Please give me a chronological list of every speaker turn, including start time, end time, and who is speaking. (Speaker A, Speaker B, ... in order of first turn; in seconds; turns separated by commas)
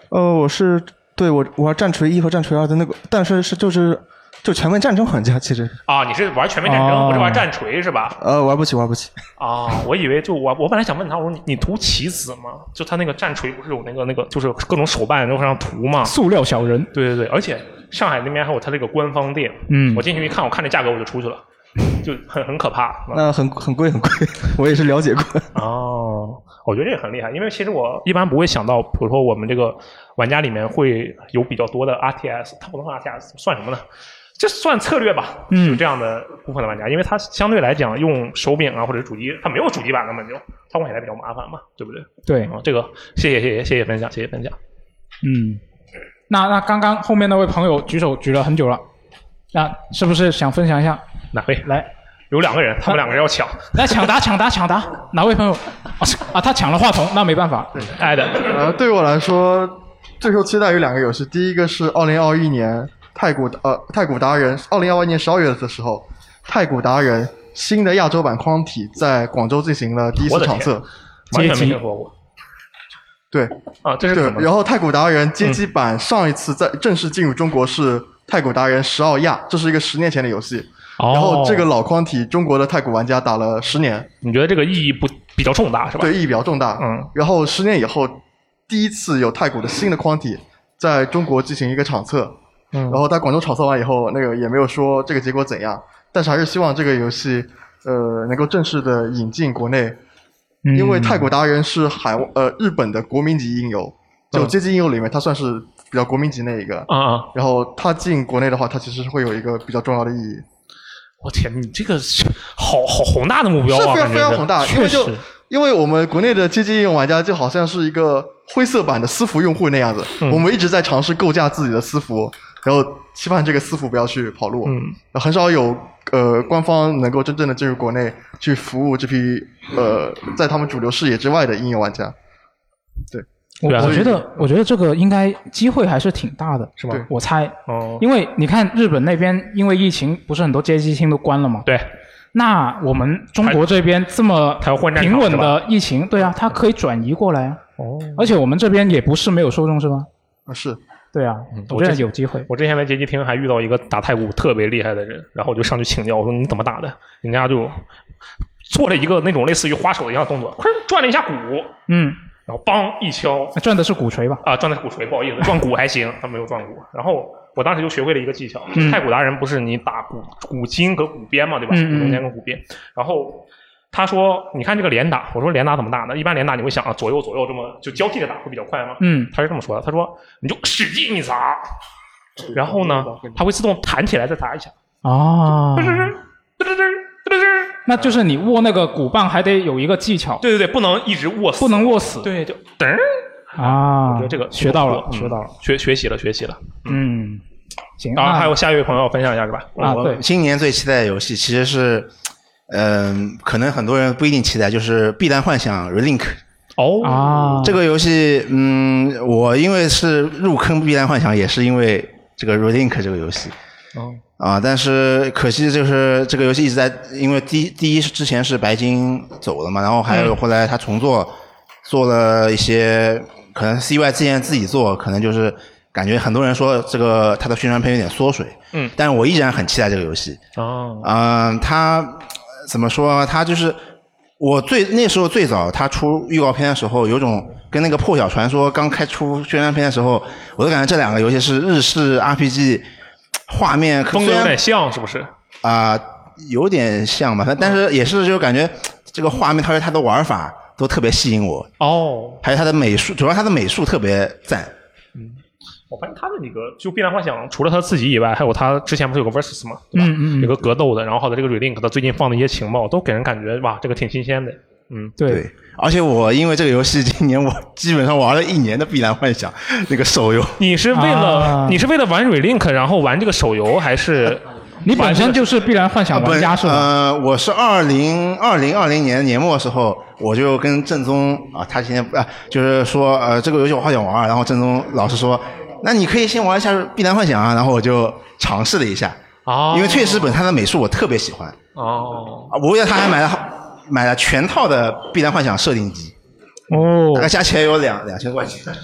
Speaker A: 0.1-5.8, Speaker B: 5.9-8.2, Speaker C: 6.7-7.4, Speaker A: 6.7-7.3, Speaker A: 8.2-9.1, Speaker B: 9.4-16.1, Speaker C: 16.1-16.9, Speaker B: 16.9-21.4, Speaker C: 19.7-20.1, Speaker B: 22.0-23.2, Speaker A: 23.1-25.5, Speaker B: 25.6-33.9, Speaker B: 34.4-44.6, Speaker C: 35.5-35.8, Speaker C: 42.3-42.5, Speaker C: 45.2-45.6, Speaker C: 46.3-48.8, Speaker C: 49.5-51.0, Speaker B: 51.3-51.7, Speaker B: 52.3-54.1, Speaker C: 53.7-57.7, Speaker D: 57.8-70.9, Speaker B: 57.8-58.6, Speaker B: 70.2-70.8, Speaker B: 71.3-72.1, Speaker C: 71.3-71.8, Speaker D: 73.3-73.6, Speaker B: 73.8-74.5, Speaker D: 74.1-84.1, Speaker B: 81.0-81.7, Speaker B: 84.2-86.1, Speaker D: 86.0-92.4, Speaker B: 86.8-87.1, Speaker B: 92.7-93.0, Speaker D: 92.9-100.0, Speaker C: 100.7-101.3, Speaker D: 100.7-110.5, Speaker B: 106.9-107.3, Speaker B: 111.2-115.1, Speaker D: 113.7-132.1, Speaker B: 124.7-125.0, Speaker D: 133.1-134.2, Speaker C: 133.6-141.7, Speaker B: 133.7-134.2, Speaker B: 136.8-137.1, Speaker B: 137.7-138.0, Speaker C: 142.3-147.6, Speaker B: 144.6-145.6, Speaker B: 147.8-148.3, Speaker C: 148.2-150.1, Speaker D: 150.5-150.8, Speaker C: 151.1-152.5, Speaker B: 151.6-157.8, Speaker B: 158.7-161.7, Speaker C: 161.9-162.2, Speaker B: 162.5-163.6, Speaker C: 163.6-164.4, Speaker B: 164.4-181.6, Speaker C: 168.7-169.0, Speaker C: 171.7-172.2, Speaker C: 179.0-179.3, Speaker D: 182.4-183.4, Speaker B: 182.5-184.7, Speaker C: 185.0-186.2, Speaker B: 185.8-188.1, Speaker C: 187.9-190.4, Speaker B: 190.4-197.0, Speaker C: 191.6-192.3, Speaker C: 193.6-195.5, Speaker C: 196.9-197.4, Speaker C: 198.0-198.5, Speaker B: 198.2-200.1, Speaker C: 199.8-200.2, Speaker E: 199.8-202.1, Speaker E: 202.7-206.4, Speaker B: 206.8-207.2, Speaker C: 207.0-207.8, Speaker E: 207.6-213.5, Speaker B: 213.9-214.2, Speaker E: 214.4-221.3, Speaker B: 220.1-220.4, Speaker E: 221.8-230.4, Speaker B: 230.6-231.1, Speaker E: 231.0-233.8, Speaker E: 234.4-242.8, Speaker E: 243.5-244.6, Speaker B: 244.1-245.3, Speaker E: 245.6-251.7, Speaker B: 251.8-252.4, Speaker E: 252.4-254.7, Speaker B: 255.9-265.1, Speaker C: 259.9-260.6, Speaker C: 265.2-265.4, Speaker E: 265.3-270.6, Speaker B: 270.6-275.5, Speaker C: 270.9-271.8, Speaker C: 274.9-276.9, Speaker E: 276.1-291.6, Speaker B: 289.5-290.4, Speaker B: 291.8-292.5, Speaker E: 292.5-296.1, Speaker C: 296.7-297.3, Speaker E: 297.1-298.8